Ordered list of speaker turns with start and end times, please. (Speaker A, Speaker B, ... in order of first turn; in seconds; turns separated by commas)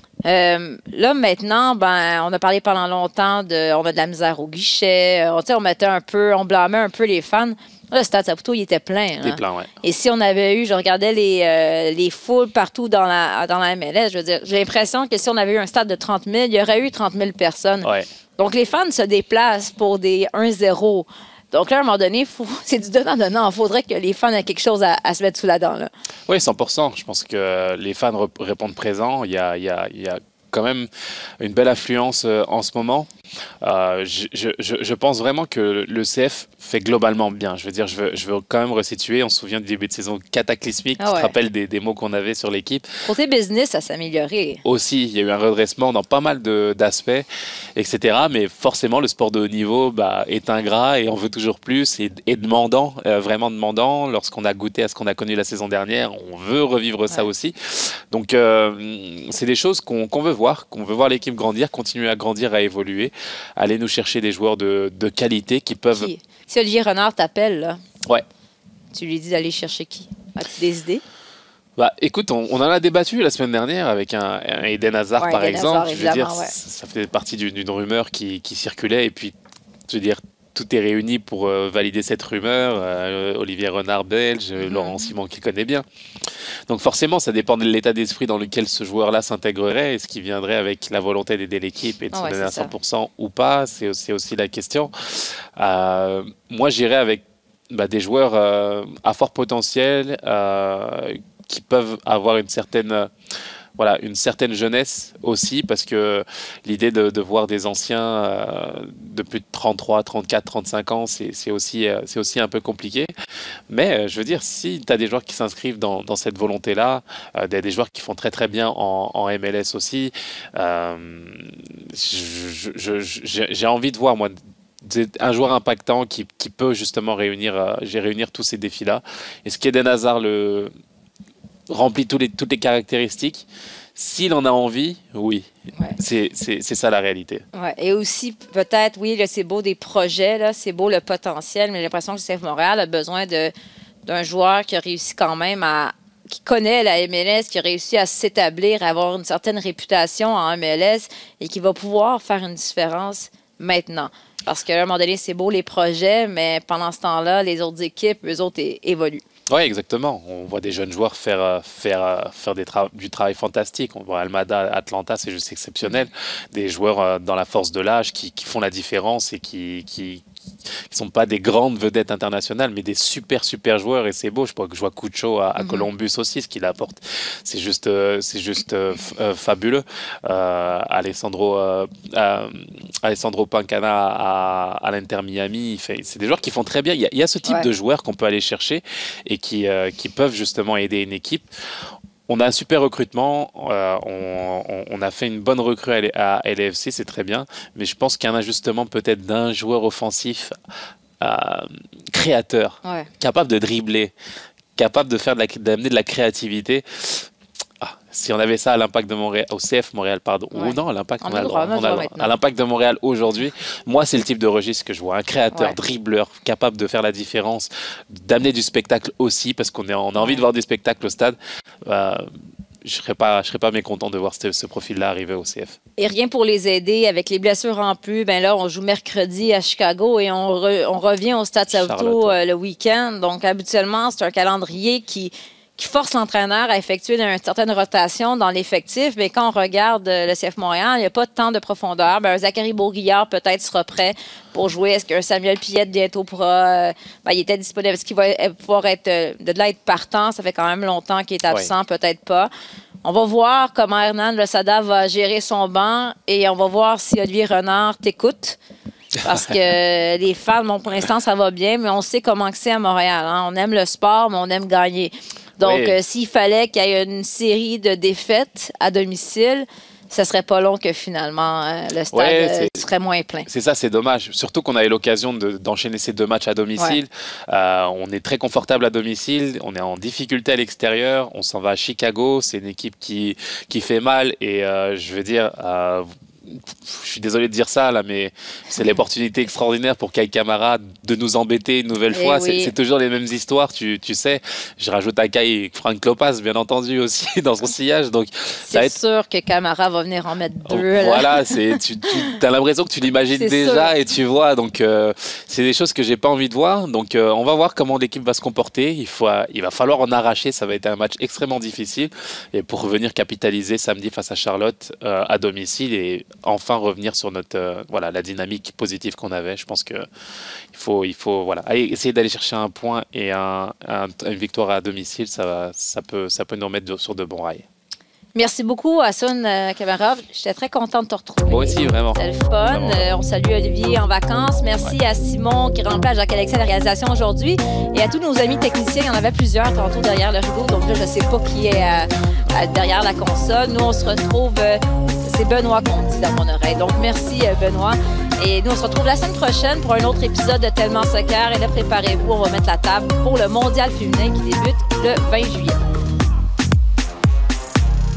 Speaker A: 0.2-25.9, Speaker B: 9.2-9.7, Speaker B: 26.3-30.9, Speaker B: 31.4-33.1, Speaker B: 33.6-42.9, Speaker A: 41.0-41.3, Speaker A: 43.0-44.6, Speaker B: 44.6-66.1, Speaker A: 65.9-67.8, Speaker A: 68.9-71.0, Speaker B: 71.8-79.3, Speaker A: 75.2-76.5, Speaker B: 79.9-85.8, Speaker A: 84.6-85.0, Speaker B: 86.7-103.1, Speaker A: 92.1-92.7, Speaker B: 103.8-113.1, Speaker B: 113.7-130.7, Speaker B: 131.7-137.4, Speaker A: 137.5-143.5, Speaker A: 144.1-159.2, Speaker B: 159.5-170.2, Speaker B: 170.9-191.5, Speaker A: 175.6-175.9, Speaker B: 192.3-200.6, Speaker B: 201.2-204.1, Speaker A: 202.8-203.1, Speaker B: 204.8-207.3, Speaker B: 207.8-222.3, Speaker A: 210.5-212.3, Speaker A: 220.2-220.4, Speaker B: 222.8-225.8, Speaker A: 226.0-252.5, Speaker B: 231.7-232.4, Speaker A: 253.0-258.6, Speaker A: 259.2-273.5, Speaker B: 259.3-259.5, Speaker B: 265.6-266.0, Speaker B: 272.1-272.8, Speaker B: 273.5-298.9, Speaker A: 292.1-292.7, Speaker A: 298.7-301.3, Speaker B: 300.7-320.1, Speaker A: 303.3-303.9, Speaker B: 320.7-327.6, Speaker A: 328.3-355.8, Speaker B: 331.5-333.1